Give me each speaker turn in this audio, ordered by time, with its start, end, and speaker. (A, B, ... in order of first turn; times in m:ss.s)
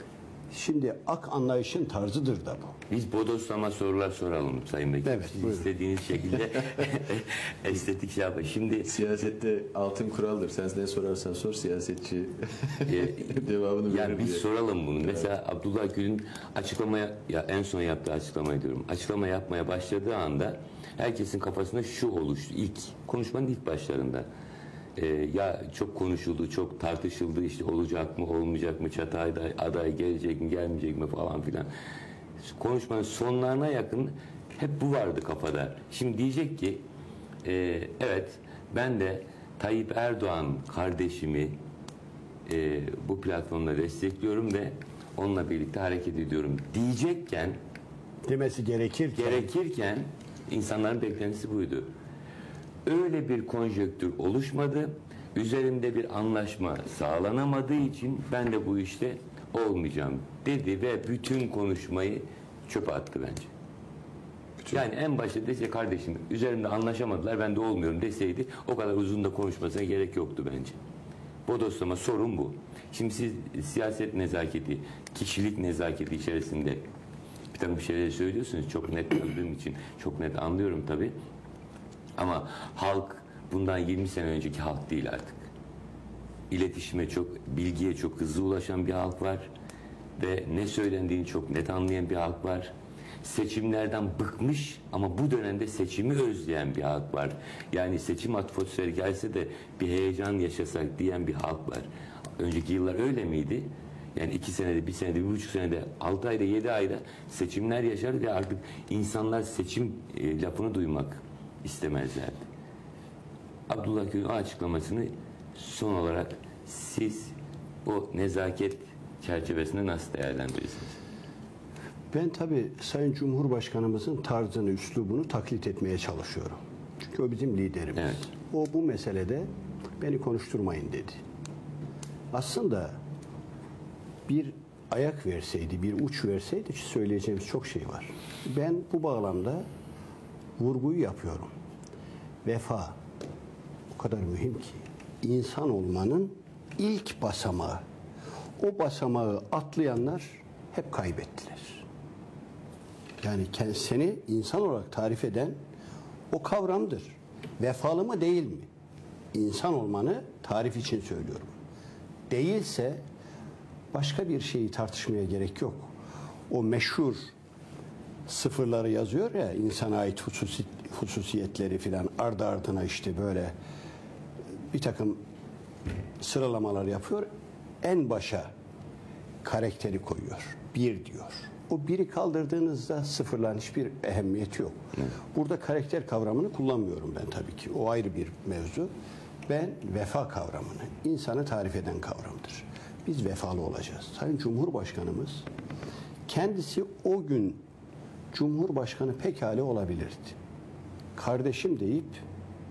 0:00.5-0:02.8 A
0:02.9-0:08.9 B
0:05.0-0:05.6 A
0:08.9-0:14.4 C
0:12.9-0:24.3 B
0:15.0-0:15.3 C
0:25.0-0:31.7 B
0:32.4-0:36.8 B
0:37.4-0:41.6 B
0:42.4-0:47.6 B
0:48.2-0:49.5 A
0:49.2-0:51.9 B
0:52.8-1:03.5 B
1:04.7-1:10.8 B
1:11.5-1:16.8 B
1:17.5-1:21.1 B
1:22.2-1:25.4 B
1:26.5-1:29.5 B
1:30.2-1:32.7 B
1:33.2-1:41.9 B
1:42.4-1:52.4 B
1:53.7-1:57.3 B
1:57.8-2:00.9 B
2:02.1-2:09.5 A
2:08.0-2:08.2 B
2:10.0-2:11.2 A
2:12.3-2:13.0 A
2:14.3-2:19.6 A
2:20.6-2:21.5 A
2:22.4-2:23.0 A
2:23.9-2:27.8 A
2:28.6-2:31.8 A
2:33.2-2:35.6 A
2:36.3-2:38.7 A
2:39.3-2:41.5 A
2:42.3-2:43.0 A
2:43.9-2:45.9 A
2:46.5-2:47.3 A
2:48.3-2:53.5 A
2:54.7-2:55.2 A
2:56.2-2:57.3 A
2:57.8-2:58.5 A
2:59.4-3:04.8 A
3:05.3-3:08.9 A
3:09.5-3:15.4 A
3:16.3-3:17.6 A
3:18.3-3:20.4 A
3:21.2-3:22.2 A